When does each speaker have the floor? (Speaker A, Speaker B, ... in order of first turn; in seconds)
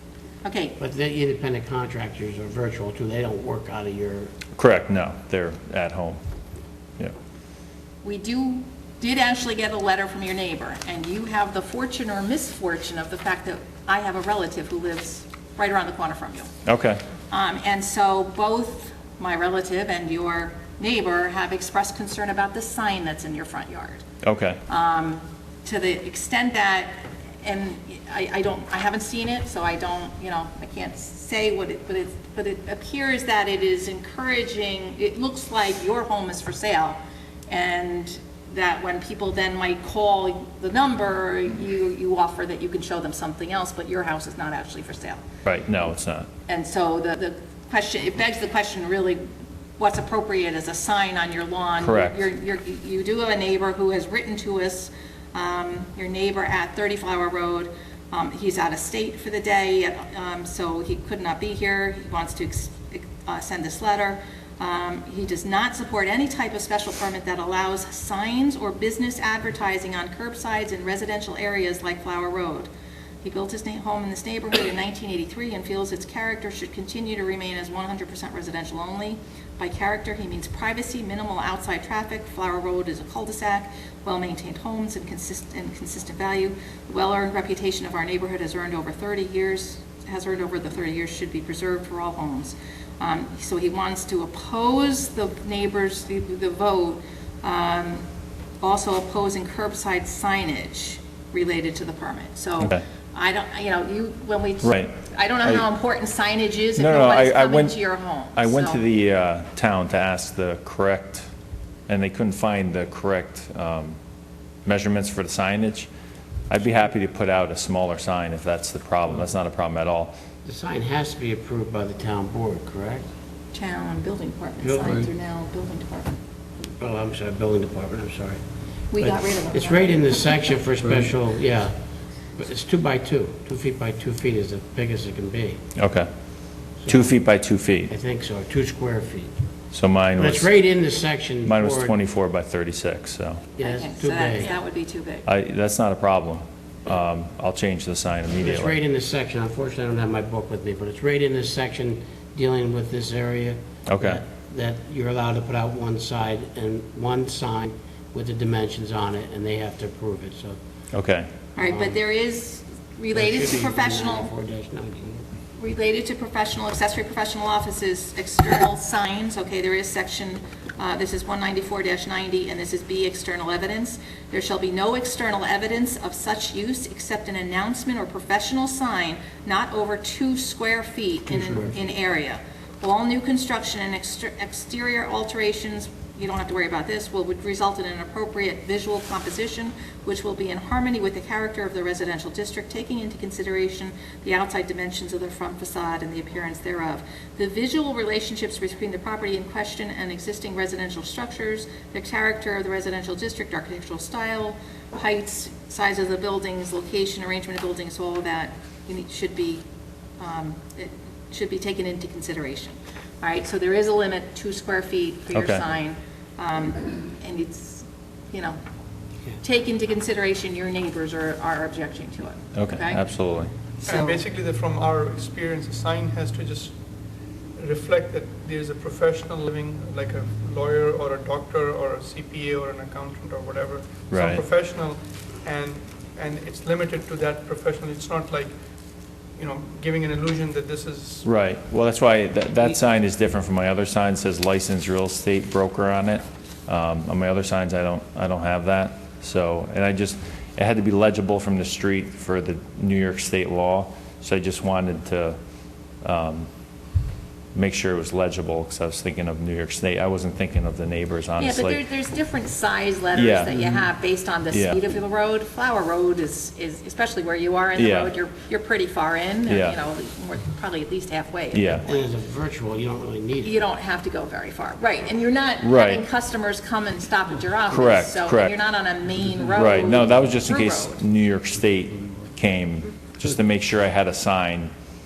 Speaker A: 0.4-0.8, 8.0-16.5, 17.3-24.0, 24.7-45.2, 46.5-49.2, 49.8-72.7, 73.2-98.0, 98.6-108.8, 123.5-126.2, 128.9-130.5, 143.6-145.3, 161.6-164.3, 165.6-209.6, 210.2-218.6, 219.4-223.0, 223.9-224.2, 261.4-272.0, 273.4-281.0
Speaker B: 0.8-4.3, 120.4-123.1, 124.6-125.1, 126.8-128.4, 129.0-131.8, 132.3-135.6, 136.8-137.1, 137.9-139.3, 140.2-141.9, 143.6-144.5, 148.4-160.6, 161.6-162.0, 163.1-165.3, 181.3-181.7, 263.5-263.8, 271.8-273.6
Speaker C: 4.6-6.2, 16.6-17.0, 24.2-24.6, 45.4-46.3, 51.8-52.3, 104.6-105.7, 106.8-107.8, 108.3-111.3, 111.9-114.0, 114.7-115.9, 116.5-120.1, 135.8-136.1, 136.9-137.9, 139.7-140.5, 141.4-143.4, 145.3-148.8, 153.9-154.2, 160.9-161.3, 215.3-215.6, 222.6-223.5, 234.1-234.4, 241.2-255.4, 256.0-256.5, 257.6-261.8, 263.1-263.6, 264.5-264.8, 267.8-268.1, 269.5-269.8, 271.5-271.8, 275.6-276.1, 277.7-278.5, 279.5-284.7
Speaker D: 223.8-226.7, 227.6-238.5, 239.4-241.3